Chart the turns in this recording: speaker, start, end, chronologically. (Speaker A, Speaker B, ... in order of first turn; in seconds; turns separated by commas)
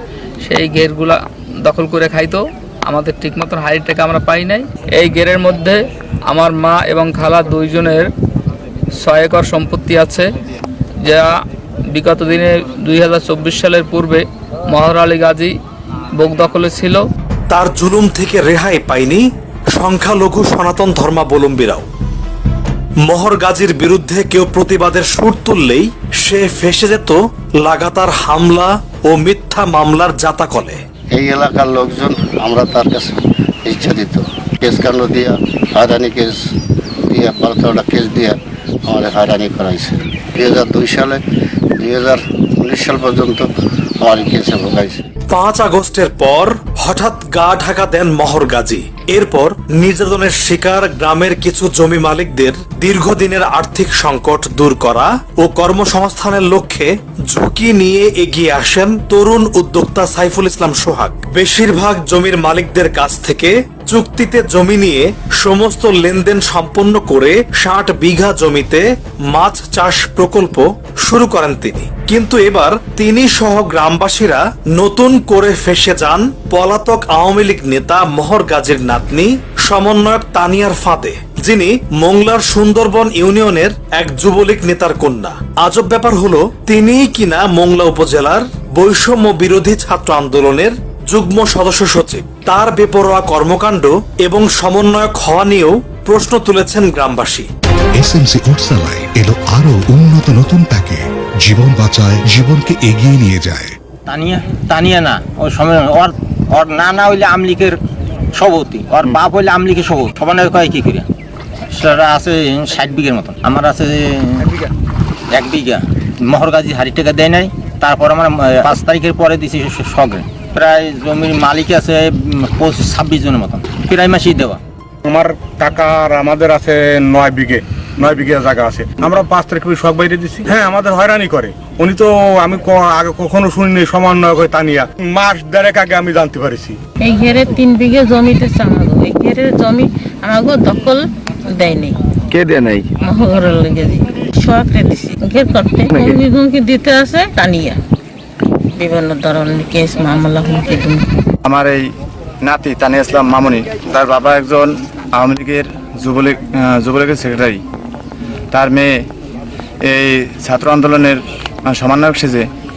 Speaker A: 0.4-8.1, Speaker A: 9.0-10.3, Speaker A: 11.0-11.3, Speaker A: 11.9-15.5, Speaker A: 16.2-17.0, Speaker B: 17.5-19.2, Speaker B: 19.8-21.9, Speaker B: 23.1-30.8, Speaker C: 31.1-33.1, Speaker C: 33.7-36.4, Speaker C: 37.1-41.2, Speaker C: 41.8-43.5, Speaker C: 44.0-45.0, Speaker B: 45.3-97.5, Speaker D: 98.0-103.7, Speaker E: 104.1-107.8, Speaker E: 108.3-111.1, Speaker E: 111.7-114.5, Speaker E: 115.3-124.6, Speaker F: 125.1-136.8, Speaker G: 137.0-142.0, Speaker G: 143.0-147.8, Speaker G: 148.8-151.1, Speaker H: 151.4-151.8, Speaker H: 152.4-157.6, Speaker H: 158.5-159.1, Speaker H: 159.8-162.5